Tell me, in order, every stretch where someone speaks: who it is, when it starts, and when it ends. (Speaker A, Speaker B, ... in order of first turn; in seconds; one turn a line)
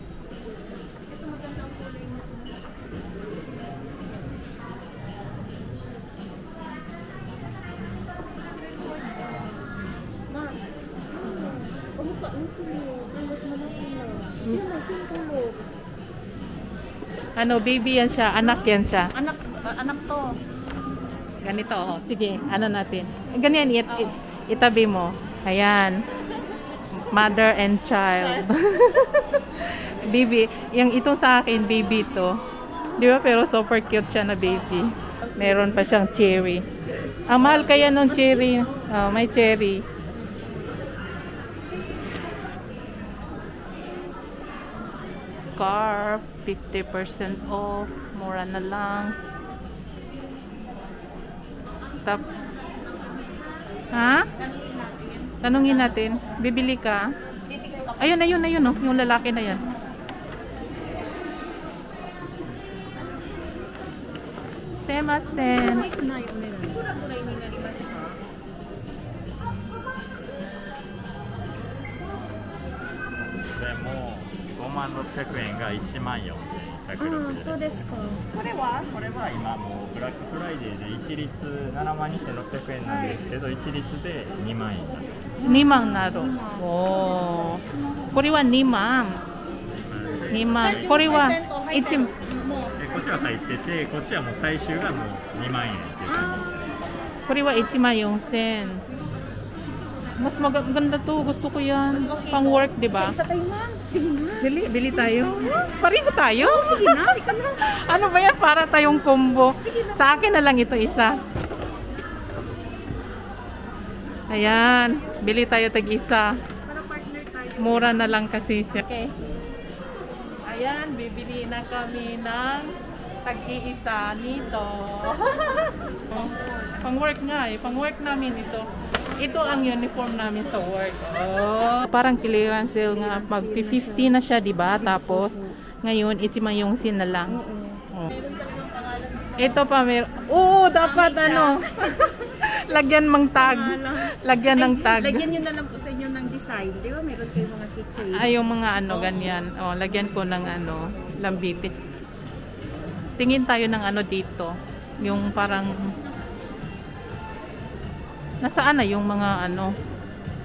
Speaker A: 1.1-2.5
Speaker A: 10.3-10.6
Speaker A: 11.2-15.6
Speaker B: 17.4-19.1
Speaker A: 18.4-20.3
Speaker B: 21.4-26.0
Speaker A: 23.9-24.2
Speaker B: 27.1-32.4
Speaker B: 33.0-36.6
Speaker A: 35.2-35.9
Speaker B: 37.3-39.8
Speaker A: 37.3-38.9
Speaker A: 40.2-40.5
Speaker B: 45.3-49.1
Speaker A: 51.8-56.3
Speaker B: 53.9-54.3
Speaker B: 55.4-57.1
Speaker A: 57.5-58.1
Speaker B: 58.0-59.6
Speaker B: 64.9-65.9
Speaker A: 65.3-68.2
Speaker C: 73.5-77.7
Speaker A: 77.0-78.9
Speaker C: 78.8-85.2
Speaker A: 82.8-83.2
Speaker A: 85.4-87.6
Speaker B: 85.4-87.6
Speaker B: 88.1-89.2
Speaker C: 89.7-91.4
Speaker B: 90.3-92.1
Speaker A: 90.5-93.3
Speaker C: 92.8-96.8
Speaker A: 96.1-96.4
Speaker B: 97.3-98.8
Speaker B: 100.2-103.2
Speaker A: 101.9-105.5
Speaker B: 104.4-107.0
Speaker A: 106.4-107.7
Speaker B: 107.6-111.2
Speaker A: 109.6-110.0
Speaker B: 114.3-116.3
Speaker A: 114.3-115.3
Speaker A: 116.6-118.2
Speaker B: 117.6-119.1
Speaker B: 120.4-122.7
Speaker B: 123.2-137.4
Speaker A: 126.1-126.8
Speaker A: 132.9-134.1
Speaker A: 134.7-135.6
Speaker A: 137.3-139.7
Speaker B: 139.4-145.3
Speaker A: 140.8-142.4
Speaker A: 143.4-151.6
Speaker B: 148.1-151.7
Speaker B: 153.2-155.9
Speaker B: 158.4-159.7